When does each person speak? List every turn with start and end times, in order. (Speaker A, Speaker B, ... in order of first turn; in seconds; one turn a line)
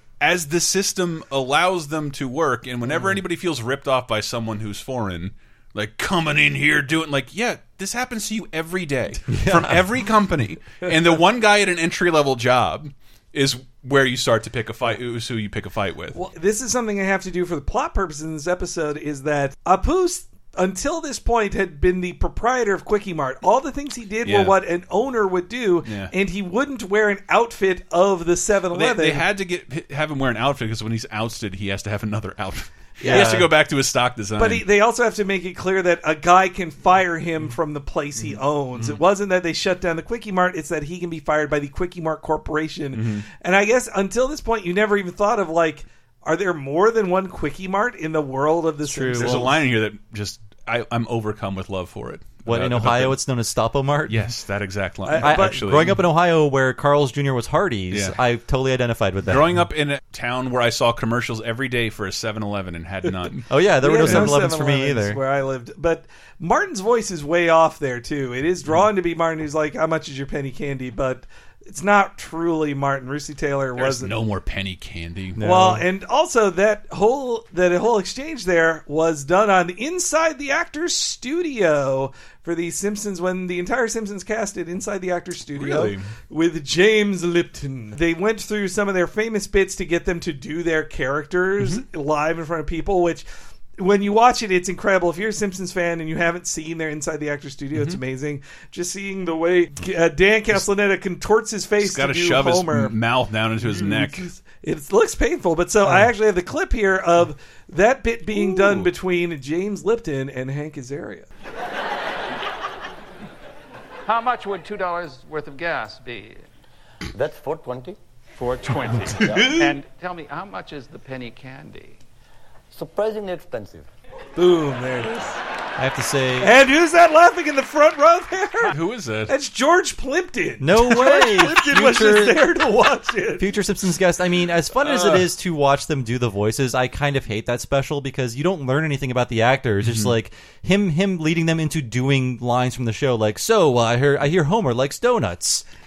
Speaker A: 0.2-16.2
Speaker B: 9.3-9.8
Speaker C: 16.1-29.2
Speaker A: 24.2-24.6
Speaker A: 25.8-26.1
Speaker A: 28.7-34.6
Speaker C: 33.0-33.4
Speaker B: 33.0-33.5
Speaker C: 34.4-49.5
Speaker A: 42.9-43.2
Speaker B: 48.8-49.5
Speaker A: 49.1-53.2
Speaker B: 52.5-54.2
Speaker A: 54.1-56.0
Speaker C: 55.0-55.7
Speaker B: 55.2-59.6
Speaker A: 57.9-58.2
Speaker A: 59.3-63.5
Speaker B: 63.5-65.2
Speaker C: 63.8-74.2
Speaker A: 64.0-64.3
Speaker A: 73.8-75.4
Speaker B: 75.4-75.8
Speaker C: 75.4-93.2
Speaker A: 85.5-86.1
Speaker C: 93.8-103.0
Speaker A: 97.7-98.0
Speaker A: 101.8-104.3
Speaker C: 103.6-111.3
Speaker A: 108.3-108.9
Speaker D: 114.0-116.4
Speaker E: 117.1-118.0
Speaker D: 118.3-122.0
Speaker C: 119.2-119.8
Speaker E: 122.7-123.9
Speaker C: 124.3-125.4
Speaker B: 125.8-126.5
Speaker C: 126.4-128.7
Speaker A: 128.6-129.3
Speaker C: 129.3-133.5
Speaker B: 130.6-132.5
Speaker B: 133.4-145.6
Speaker A: 134.8-135.3
Speaker A: 139.8-140.1